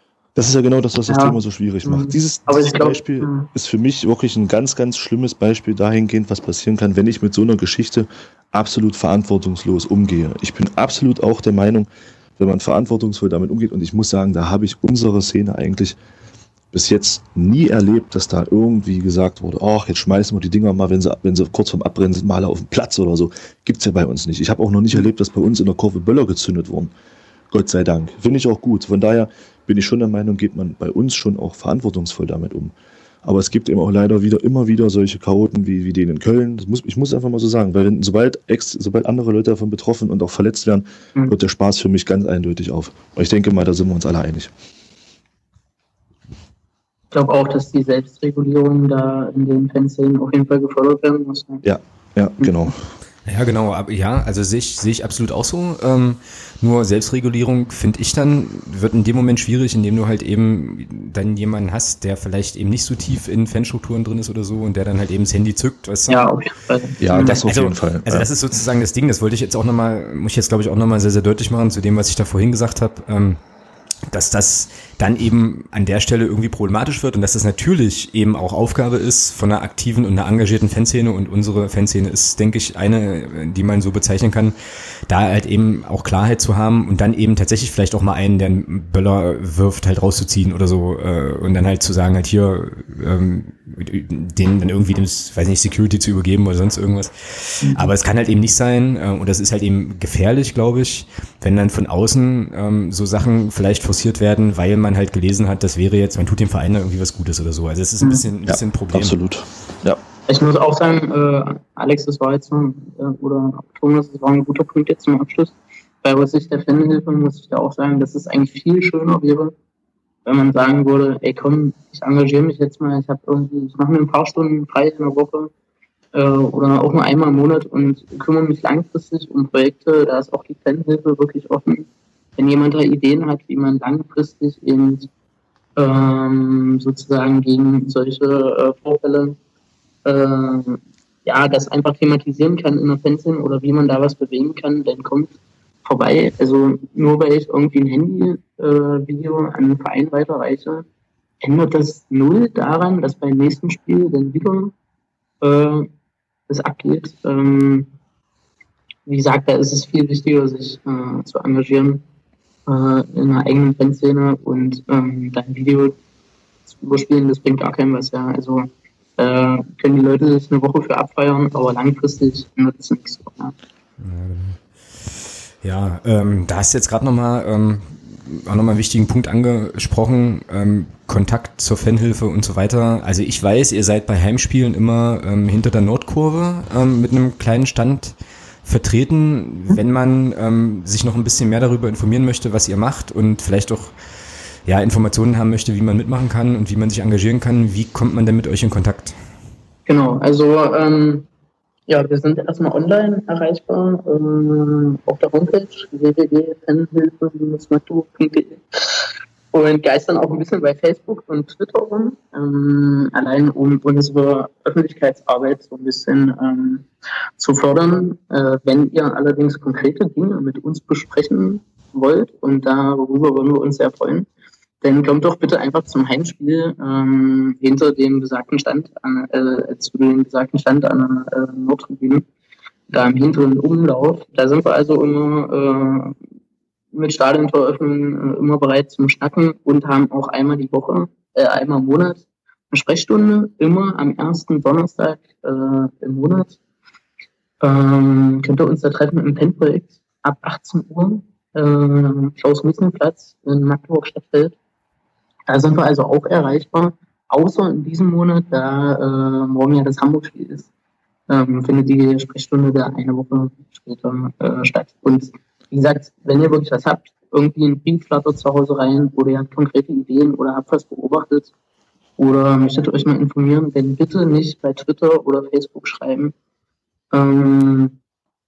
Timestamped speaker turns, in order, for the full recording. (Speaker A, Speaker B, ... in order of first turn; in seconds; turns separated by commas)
Speaker A: 0.3-16.0, Speaker B: 1.1-3.5, Speaker A: 16.7-26.9, Speaker A: 27.5-44.5, Speaker B: 47.1-51.6, Speaker A: 51.6-52.9, Speaker C: 53.2-66.2, Speaker B: 66.1-67.5, Speaker A: 67.0-68.3, Speaker C: 67.4-73.4, Speaker C: 74.1-84.6, Speaker C: 85.1-109.2, Speaker B: 97.6-97.9, Speaker B: 108.0-108.3, Speaker A: 108.5-110.0, Speaker B: 110.3-119.5, Speaker B: 120.2-125.5, Speaker B: 126.1-135.1, Speaker B: 135.8-139.4, Speaker B: 140.1-150.9, Speaker B: 151.4-154.7, Speaker B: 155.4-155.9, Speaker B: 156.5-157.9, Speaker B: 159.1-162.1, Speaker B: 162.7-166.0, Speaker B: 166.7-173.5, Speaker C: 174.0-194.0, Speaker C: 194.6-199.2, Speaker B: 199.9-201.3, Speaker B: 201.9-216.9, Speaker B: 217.4-224.3, Speaker B: 224.8-232.3, Speaker B: 232.9-236.2, Speaker B: 236.9-246.6, Speaker B: 247.6-254.6, Speaker B: 255.5-260.7, Speaker B: 261.3-271.5, Speaker B: 272.2-276.3, Speaker B: 277.1-278.0